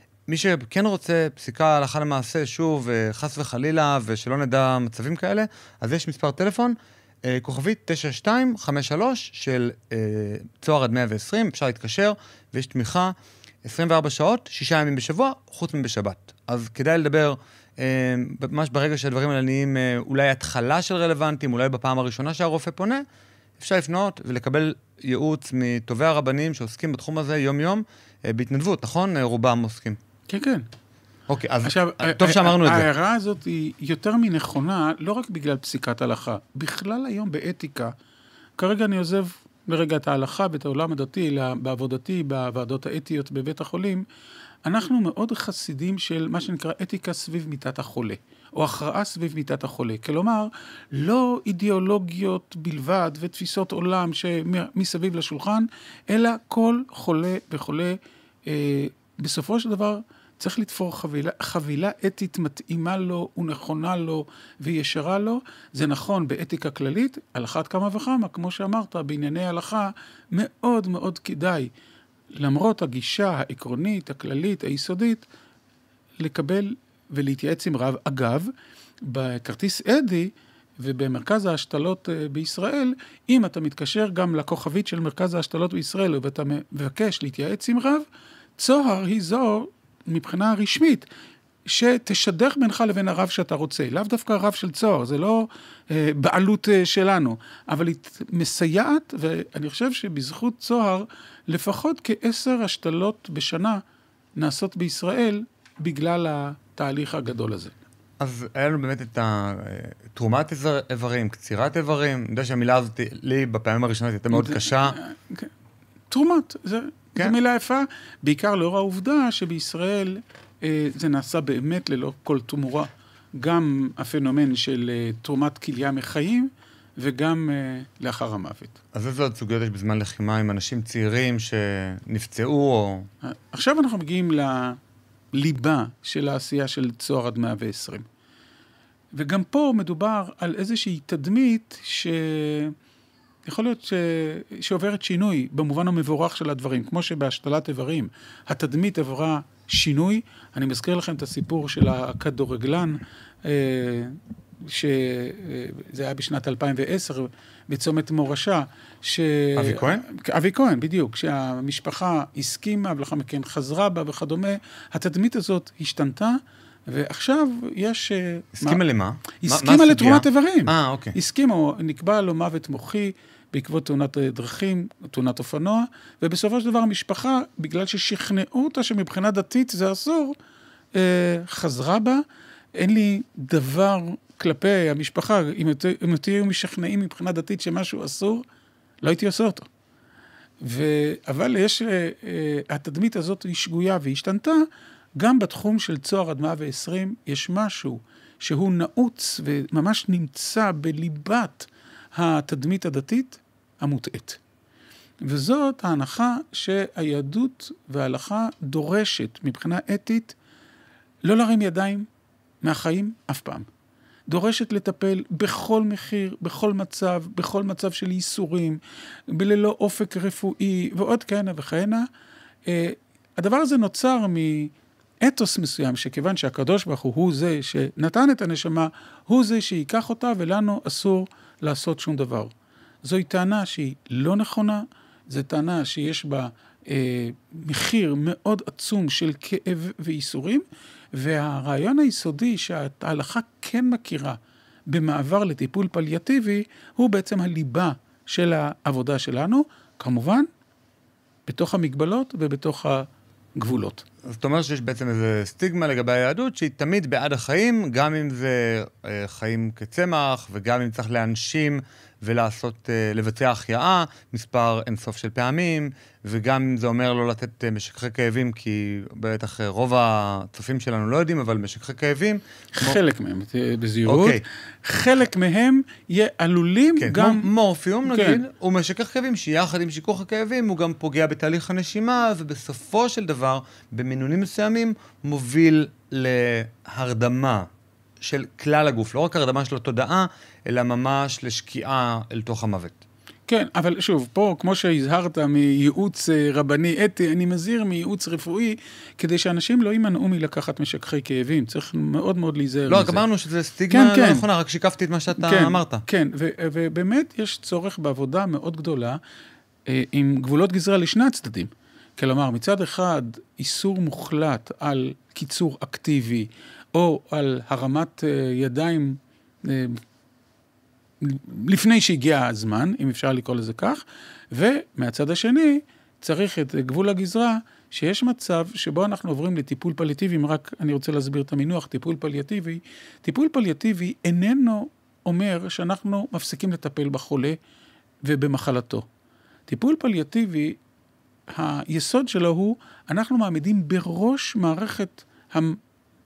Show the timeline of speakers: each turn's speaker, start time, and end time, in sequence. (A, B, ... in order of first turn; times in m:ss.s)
0:00.3-0:23.0 A
0:23.6-0:30.0 A
0:30.3-0:30.7 B
0:31.3-0:32.9 A
0:31.6-0:37.9 B
0:38.6-0:44.0 B
0:44.7-1:11.7 B
1:12.4-1:15.3 B
1:16.2-1:18.5 B
1:19.0-1:28.1 B
1:28.6-1:31.1 B
1:31.6-1:43.8 B
1:44.4-1:47.7 B
1:48.2-1:55.0 A
1:54.3-1:55.5 B
1:56.1-2:08.8 B
2:08.9-2:13.1 A
2:13.2-2:14.8 B
2:15.3-2:18.1 B
2:19.2-2:22.8 B
2:23.5-2:48.8 B
2:39.6-2:40.0 A
2:48.6-2:51.2 A
2:49.4-3:00.4 B
3:00.9-3:08.4 B
3:09.0-3:09.7 B
3:10.6-3:24.4 B
3:25.2-3:30.4 B
3:31.2-3:32.1 B
3:32.6-3:33.7 B
3:34.3-3:42.1 B
3:42.7-3:52.5 B
3:53.0-4:10.5 B
4:11.5-4:14.0 B
4:14.2-4:33.0 A
4:32.7-4:37.5 B
4:34.1-4:34.4 A
4:37.0-4:47.7 A
4:38.1-4:38.4 B
4:48.2-4:53.0 A
4:53.5-5:03.2 B
5:02.9-5:06.0 A
5:03.9-5:04.4 B
5:05.4-5:09.2 B
5:09.9-5:20.0 B
5:21.2-5:37.6 B
5:38.2-5:39.1 B
5:39.7-5:40.8 B
5:41.5-5:45.8 B